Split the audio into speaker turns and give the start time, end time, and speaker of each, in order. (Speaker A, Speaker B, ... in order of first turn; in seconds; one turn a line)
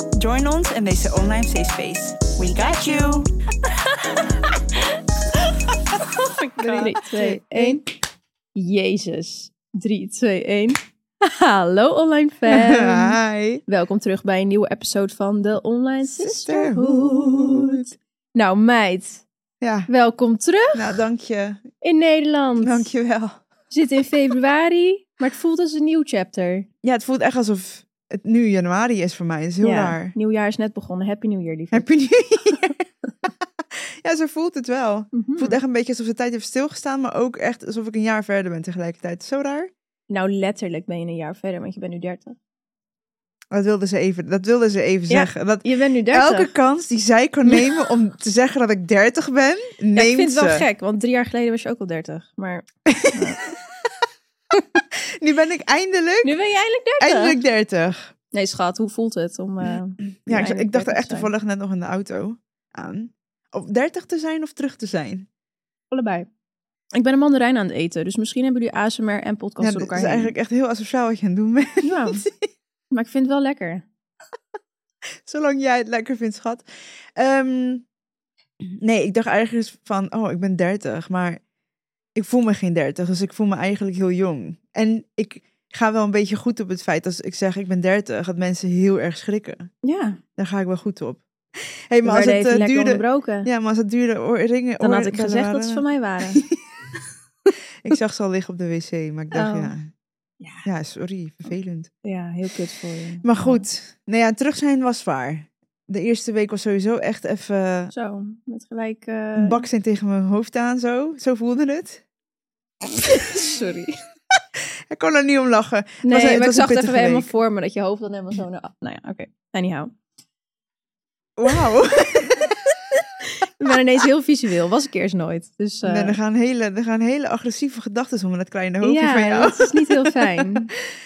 Speaker A: 0.2-3.3
Speaker A: 6.0-7.8
Speaker B: 6.4-7.8
Speaker B: 8.6-19.3
Speaker A: 12.5-13.6
Speaker A: 16.1-17.9
Speaker A: 19.6-19.9
Speaker B: 19.9-21.0
Speaker A: 20.7-21.6
Speaker B: 21.8-22.9
Speaker A: 22.6-23.4
Speaker B: 23.7-26.7
Speaker A: 26.8-30.1
Speaker B: 29.6-31.9
Speaker A: 31.7-39.7
Speaker B: 35.1-35.6
Speaker B: 40.1-42.4
Speaker A: 43.5-50.6
Speaker B: 45.1-46.5
Speaker B: 50.0-53.4
Speaker A: 52.9-53.5
Speaker A: 54.8-56.4
Speaker B: 56.2-57.4
Speaker A: 57.0-58.1
Speaker B: 58.3-61.3
Speaker A: 60.3-65.3
Speaker B: 65.9-66.3
Speaker B: 66.9-70.3
Speaker A: 69.6-72.5
Speaker B: 71.8-72.3
Speaker B: 72.9-73.8
Speaker A: 75.2-77.9
Speaker A: 78.6-81.4
Speaker A: 82.2-89.7
Speaker B: 89.8-90.2
Speaker A: 90.4-91.2
Speaker A: 91.9-96.6
Speaker B: 92.0-93.5
Speaker B: 94.8-96.4
Speaker A: 97.8-99.9
Speaker B: 99.3-99.7
Speaker B: 100.4-100.7
Speaker A: 100.7-101.9
Speaker B: 102.0-103.7
Speaker A: 103.2-107.9
Speaker B: 107.9-109.6
Speaker A: 109.4-112.0
Speaker B: 112.9-114.0
Speaker A: 114.9-117.3
Speaker B: 116.0-119.9
Speaker A: 121.4-122.6
Speaker B: 122.9-126.2
Speaker A: 125.8-130.6
Speaker B: 128.8-130.7